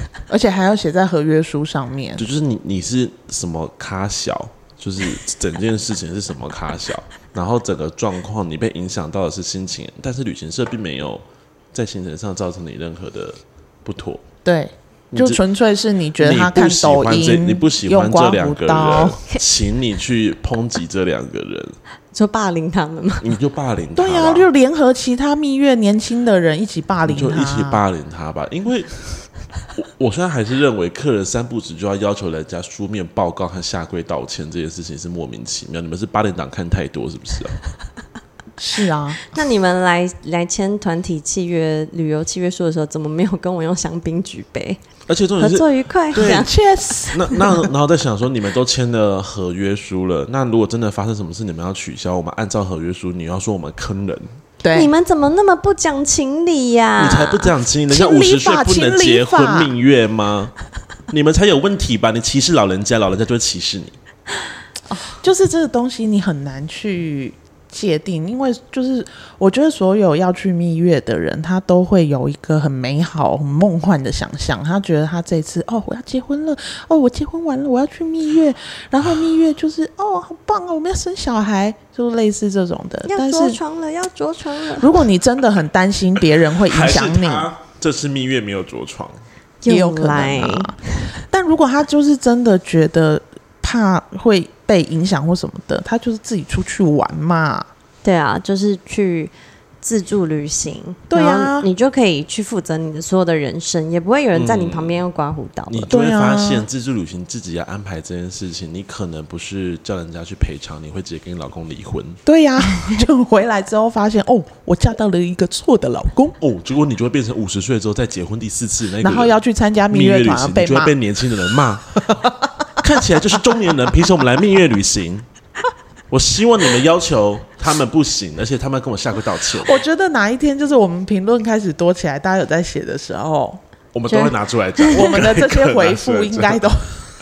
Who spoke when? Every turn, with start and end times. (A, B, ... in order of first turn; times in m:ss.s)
0:00.3-0:02.2 A
0:02.2-0:14.2 B
0:14.4-0:19.2 A
0:15.1-0:15.4 B
0:16.2-0:21.8 B
0:22.1-0:23.3 C
0:23.2-0:24.5 B
0:24.0-0:27.8 A
0:27.1-0:29.1 B
0:29.8-0:37.6 B
0:38.6-0:39.2 A
0:39.3-0:44.8 C
0:45.1-0:46.5 B
0:45.4-0:46.5 C
0:46.1-0:47.6 A
0:47.1-0:54.3 B
0:54.6-0:54.9 A
0:54.7-0:57.5 C
0:57.0-1:00.6 B
0:57.9-0:59.7 A
1:01.1-1:04.0 B
1:05.2-1:23.6 A
1:23.0-1:24.9 C
1:24.8-1:27.5 A
1:26.2-1:29.2 B
1:29.6-1:31.1 C
1:29.7-1:37.7 A
1:38.0-1:45.9 C
1:41.1-1:41.7 A
1:44.3-1:45.0 B
1:45.7-1:52.2 B
1:45.9-1:46.7 A
1:52.2-1:56.3 A
1:56.4-1:59.4 B
1:59.0-2:00.9 A
1:59.9-2:02.2 B
2:02.8-2:05.2 B
2:06.1-2:09.8 B
2:09.6-2:13.6 A
2:13.9-2:16.7 B
2:14.1-2:15.1 C
2:14.9-2:17.1 A